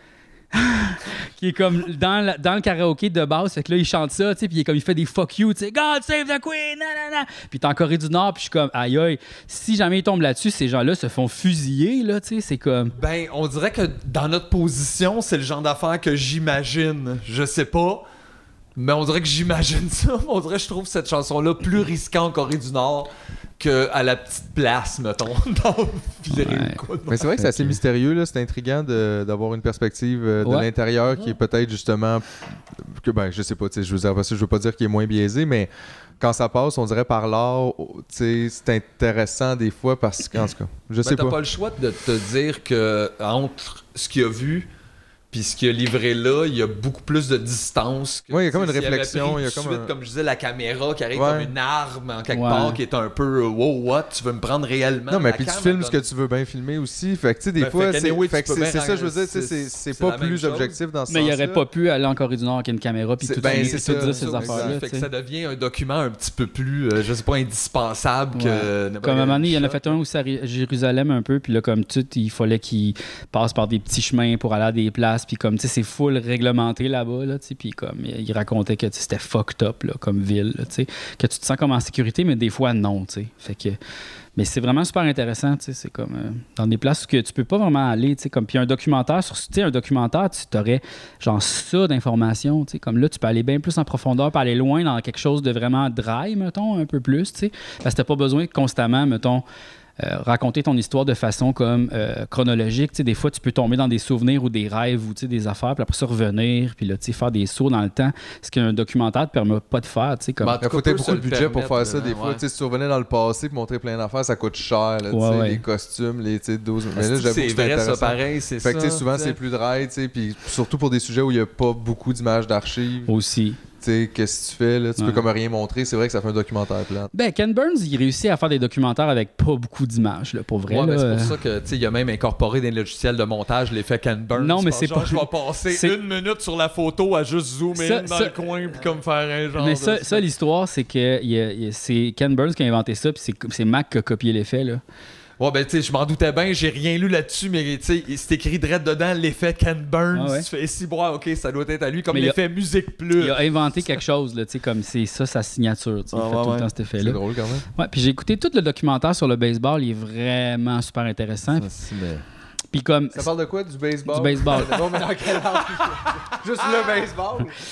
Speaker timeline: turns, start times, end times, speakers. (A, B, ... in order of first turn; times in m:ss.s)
0:00.5-0:12.9 A
0:13.0-0:18.0 B
0:18.8-0:27.2 B
0:26.3-0:26.8 A
0:27.1-0:32.2 C
0:27.4-0:27.7 A
0:32.8-0:41.4 C
0:41.0-0:44.7 B
0:45.3-0:56.0 B
0:48.3-0:49.9 C
0:51.1-0:51.5 C
0:52.3-0:52.8 A
0:55.1-1:01.6 C
0:57.6-1:00.8 B
1:01.1-1:05.1 A
1:03.2-1:04.7 C
1:03.4-1:10.0 B
1:08.3-1:23.8 A
1:24.4-1:39.4 A
1:40.0-1:50.6 A
1:50.4-1:52.4 B
1:50.6-2:03.1 C
1:55.1-1:55.6 A
1:57.0-1:59.4 B
2:03.1-2:03.6 A
2:03.8-2:07.1 C
2:05.0-2:05.2 A
2:07.1-2:11.4 A
2:10.7-2:20.2 B
2:14.3-2:16.0 A
2:17.7-2:18.5 A
2:19.6-2:24.8 A
2:25.4-2:33.4 B
2:30.1-2:30.5 A
2:32.1-2:32.4 A
2:33.2-2:37.2 A
2:36.1-2:36.7 B
2:37.0-2:37.6 C
2:37.8-2:41.7 A
2:41.5-2:42.2 B
2:42.7-2:43.3 A
2:43.1-2:47.6 C
2:44.1-2:44.8 A